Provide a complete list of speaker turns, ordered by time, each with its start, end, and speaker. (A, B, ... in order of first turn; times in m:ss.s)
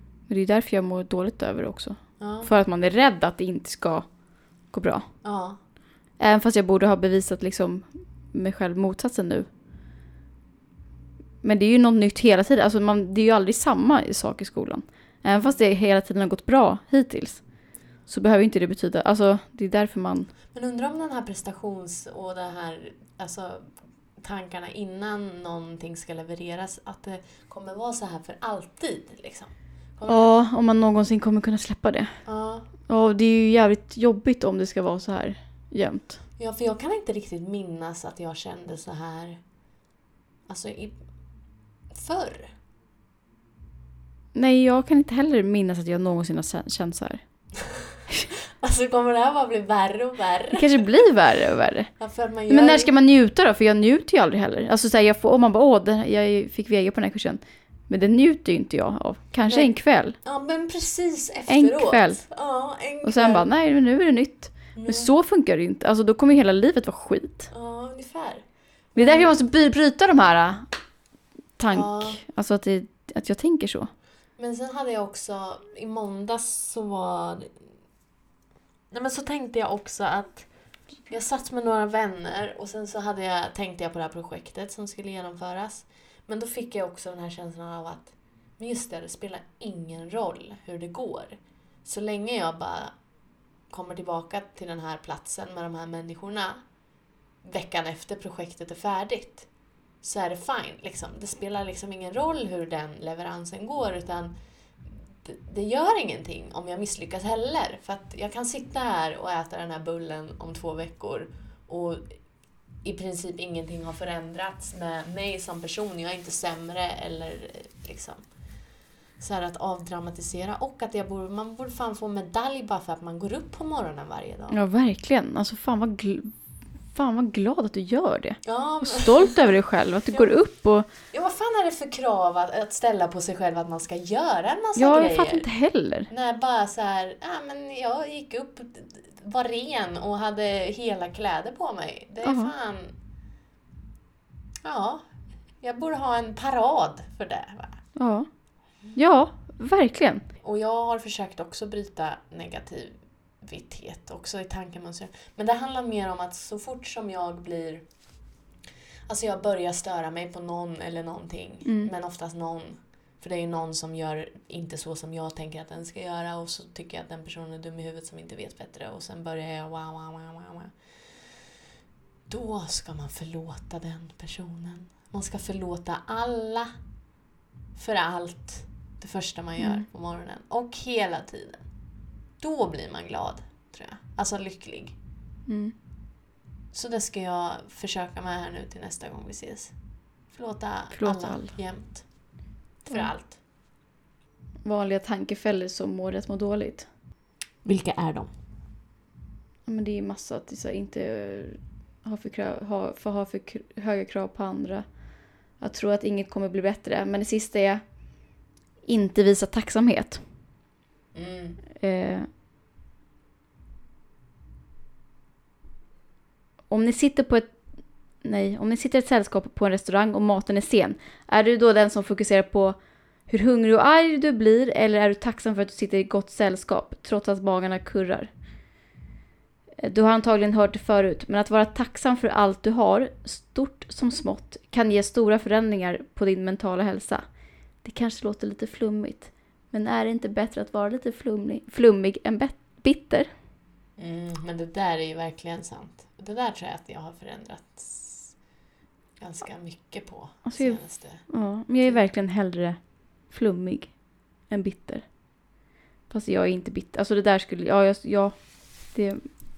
0:00.3-0:04.0 A
0:02.2-0:02.5 B
0:04.7-0:05.0 A
0:05.2-0:05.6 B
0:06.2-0:09.5 A
0:11.4-0:17.4 A
0:18.1-0:20.3 A
0:20.5-0:30.3 B
0:30.1-0:32.2 A
0:32.2-0:32.7 B
0:32.9-0:36.2 A
0:36.4-0:39.4 B
0:40.5-0:41.0 B
0:41.9-0:42.5 B
0:44.4-0:47.2 A
0:48.6-0:50.7 B
0:50.6-0:51.9 A
0:52.0-0:52.9 B
0:52.5-1:00.2 A
1:00.2-1:03.5 B
1:01.5-1:02.2 A
1:03.0-1:07.5 A
1:04.7-1:05.1 B
1:07.5-1:08.4 B
1:09.0-1:09.4 B
1:09.0-1:10.7 A
1:11.6-1:13.9 A
1:11.7-1:12.2 B
1:14.4-1:17.5 B
1:18.9-1:20.5 B
1:21.1-1:32.9 B
1:33.7-1:36.6 B
1:37.4-1:39.5 B
1:40.0-1:44.4 B
1:45.2-1:52.2 B
1:52.8-1:58.2 B
1:59.2-2:04.6 B
2:04.5-2:06.3 A
2:06.9-2:10.9 A
2:08.4-2:09.4 B
2:11.1-2:15.5 B
2:14.8-2:16.1 A
2:16.1-2:23.0 B
2:22.2-2:22.5 A
2:24.6-2:25.0 B
2:25.6-2:27.8 B
2:28.0-2:28.3 A
2:29.0-2:30.2 A
2:30.4-2:37.9 B
2:39.1-2:50.7 B
2:41.6-2:41.9 A
2:52.3-2:56.7 B
2:57.8-3:01.6 B
2:59.6-2:59.9 A
3:02.4-3:05.0 B
3:05.5-3:05.8 A
3:06.7-3:09.7 B
3:10.3-3:12.0 B
3:10.9-3:11.6 A
3:12.8-3:13.4 B
3:14.6-3:16.9 A
3:17.6-3:18.3 B
3:19.7-3:24.8 A
3:25.6-3:27.8 A
3:28.9-3:30.2 A
3:31.2-3:31.6 B
3:31.8-3:32.3 A
3:36.7-3:37.5 A
3:38.2-3:42.8 A
3:43.3-3:48.3 A
3:49.8-3:57.2 A
3:57.8-4:03.3 A
4:04.0-4:08.4 B
4:09.2-4:11.2 B
4:10.4-4:14.0 A
4:14.5-4:15.1 A
4:16.1-4:19.2 A